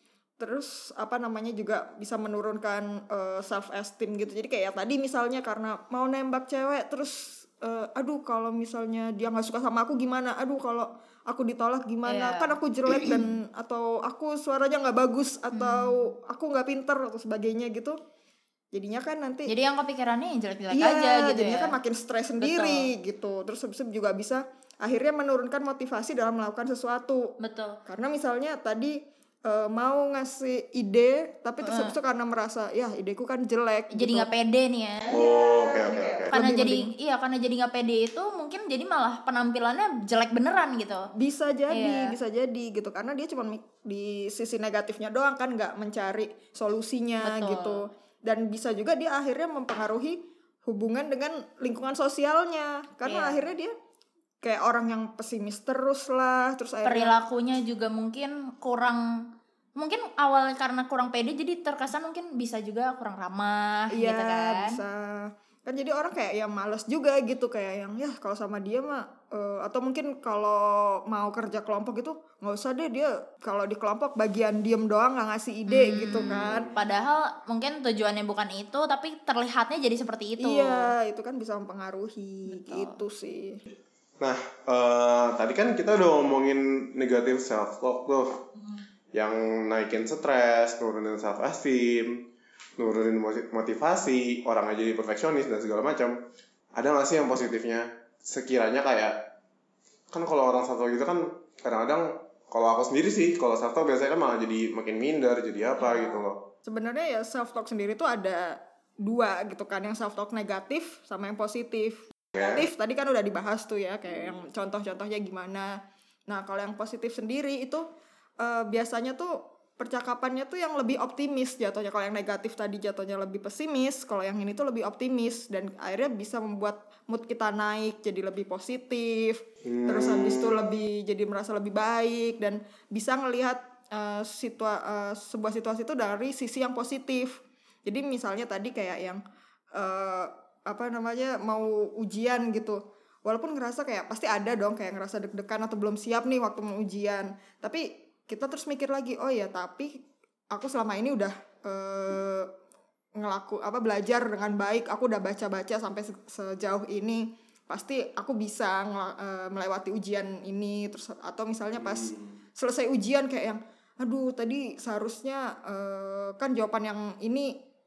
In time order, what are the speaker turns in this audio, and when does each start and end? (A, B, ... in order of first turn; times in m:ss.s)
0:00.4-0:18.0 A
0:12.0-0:13.2 B
0:15.5-0:16.1 B
0:18.7-0:19.5 A
0:19.5-0:21.8 B
0:20.7-0:27.2 A
0:22.4-0:22.9 B
0:27.4-0:27.8 B
0:27.8-0:34.3 A
0:31.6-0:31.9 B
0:33.9-0:35.2 B
0:35.1-0:36.3 C
0:35.2-0:36.9 A
0:36.3-0:41.1 B
0:41.2-0:53.7 A
0:41.7-0:42.1 B
0:47.2-0:47.8 B
0:53.0-0:53.4 B
0:54.4-0:57.1 A
0:56.8-0:59.0 B
0:59.8-1:04.8 B
1:03.9-1:16.7 A
1:15.7-1:20.9 B
1:16.1-1:16.7 C
1:20.4-1:23.6 A
1:22.4-1:23.0 B
1:24.2-1:28.4 C
1:29.1-1:32.2 C
1:32.8-1:36.2 C
1:36.8-1:39.2 C
1:40.1-1:46.4 C
1:46.6-1:55.7 A
1:52.4-1:52.6 C
1:56.3-1:57.8 A
1:58.4-2:19.2 A
2:09.6-2:10.6 C
2:19.7-2:29.9 A
2:30.5-2:32.5 A
2:33.2-2:47.5 A
2:41.8-2:42.2 C